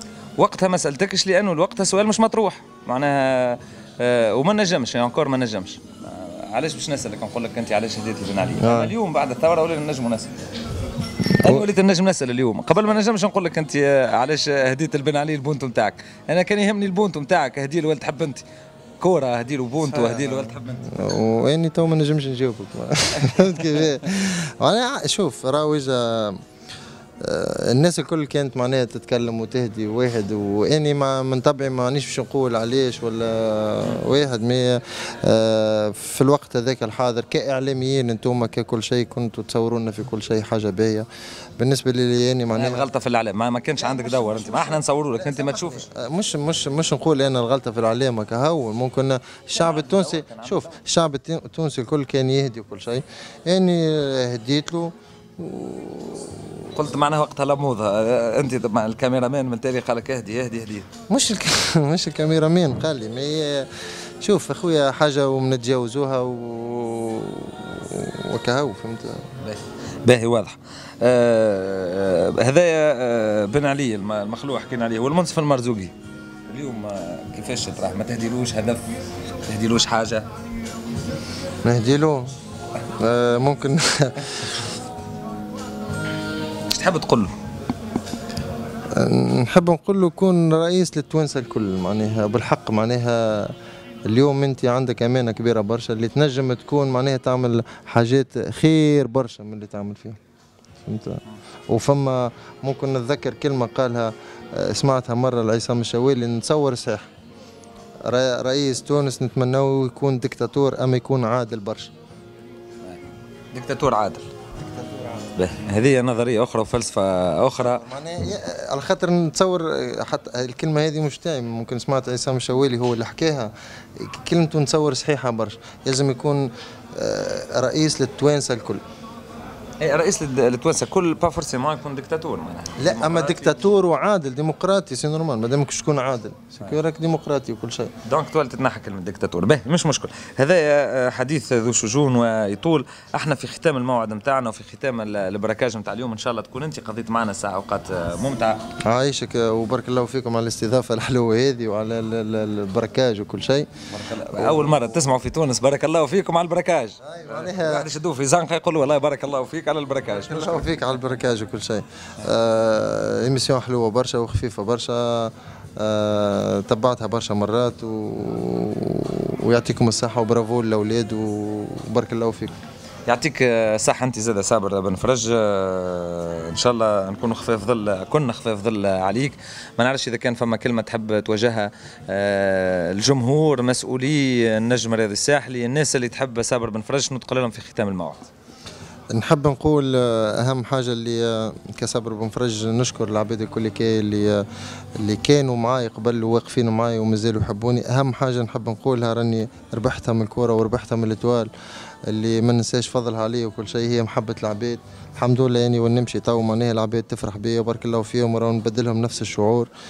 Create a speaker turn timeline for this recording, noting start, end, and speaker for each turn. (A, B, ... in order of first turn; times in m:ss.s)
0:00.4-0:10.3 A
0:08.6-0:08.9 B
0:11.4-0:18.4 A
0:19.0-0:20.9 A
0:19.9-0:26.4 B
0:23.2-0:23.8 A
0:27.2-0:41.1 B
0:41.6-0:42.9 B
0:42.5-0:45.8 A
0:43.8-0:56.7 B
0:49.5-0:50.8 A
0:56.8-1:00.9 A
1:01.1-1:09.3 B
1:09.4-1:15.9 A
1:16.5-1:18.8 A
1:19.5-1:20.3 A
1:21.6-1:22.3 B
1:23.0-1:24.6 B
1:26.7-1:27.3 A
1:28.9-1:33.6 B
1:34.1-1:40.2 B
1:40.8-1:47.1 B
1:48.0-1:51.9 B
1:52.8-1:54.3 A
1:54.6-1:55.3 B
1:55.4-1:57.8 A
1:57.6-2:08.8 B
2:09.8-2:13.6 A
2:12.8-2:17.9 B
2:18.0-2:28.6 A
2:28.8-2:33.7 B
2:33.9-2:40.7 A
2:34.3-2:35.1 B
2:37.0-2:37.9 B
2:40.1-2:52.6 B
2:53.1-3:08.3 A
3:09.1-3:14.5 B
3:15.0-3:21.5 B
3:22.1-3:29.7 B